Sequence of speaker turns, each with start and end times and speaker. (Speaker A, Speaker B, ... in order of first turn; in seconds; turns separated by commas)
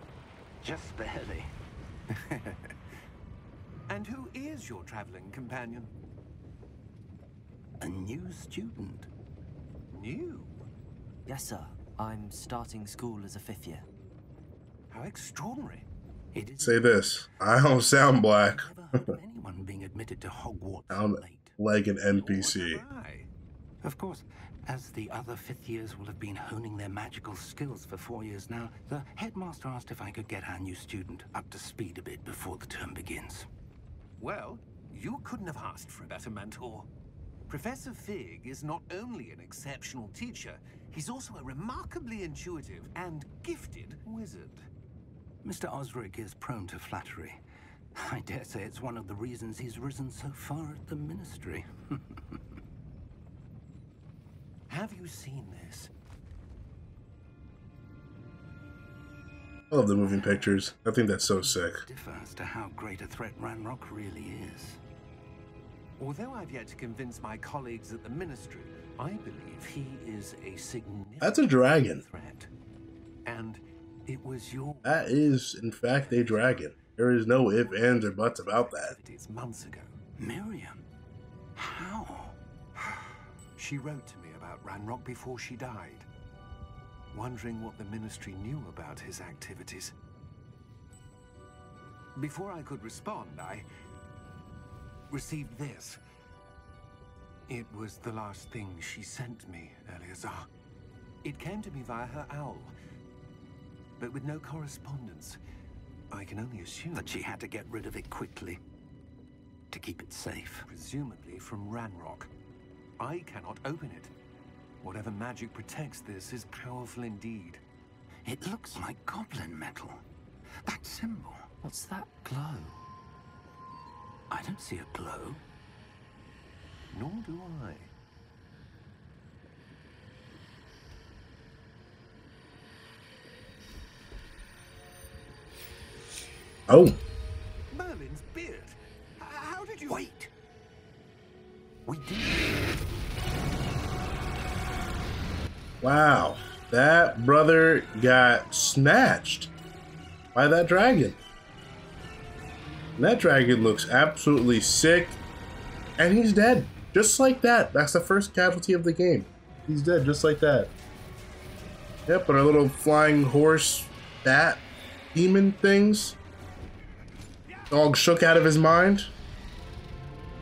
Speaker A: 0.6-1.5, Speaker B: 3.9-5.9, Speaker A: 7.8-9.1, Speaker B: 9.9-10.7, Speaker C: 11.3-13.9, Speaker B: 14.9-15.8, Speaker A: 16.3-16.9, Speaker D: 16.6-19.1, Speaker A: 17.5-21.6, Speaker D: 20.9-22.8, Speaker B: 22.2-23.3, Speaker A: 23.8-33.5, Speaker B: 34.2-36.9, Speaker B: 37.5-44.7, Speaker A: 45.4-47.4, Speaker A: 48.0-52.4, Speaker B: 54.7-55.9, Speaker D: 59.7-61.8, Speaker A: 61.4-64.8, Speaker B: 66.0-72.5, Speaker D: 71.2-72.0, Speaker B: 73.3-74.9, Speaker D: 74.8-78.9, Speaker B: 76.1-76.8, Speaker B: 77.4-80.0, Speaker A: 80.2-80.8, Speaker A: 81.6-82.4, Speaker B: 82.8-86.1, Speaker B: 87.1-89.9, Speaker B: 92.2-93.7, Speaker B: 95.1-96.0, Speaker B: 97.5-100.5, Speaker B: 101.2-102.7, Speaker B: 104.0-105.4, Speaker B: 106.1-107.2, Speaker A: 106.9-108.6, Speaker A: 109.7-110.7, Speaker B: 110.7-112.3, Speaker B: 113.0-114.1, Speaker B: 114.8-117.6, Speaker A: 118.2-120.0, Speaker A: 120.6-122.8, Speaker A: 124.3-125.4, Speaker B: 126.9-127.9, Speaker D: 136.7-137.0, Speaker B: 137.7-140.1, Speaker A: 139.9-140.3, Speaker A: 141.9-142.6, Speaker D: 145.8-149.5, Speaker D: 150.3-151.2, Speaker D: 153.0-155.2, Speaker D: 156.0-160.7, Speaker D: 162.1-164.6, Speaker D: 165.1-166.2, Speaker A: 167.5-167.7, Speaker D: 167.7-169.1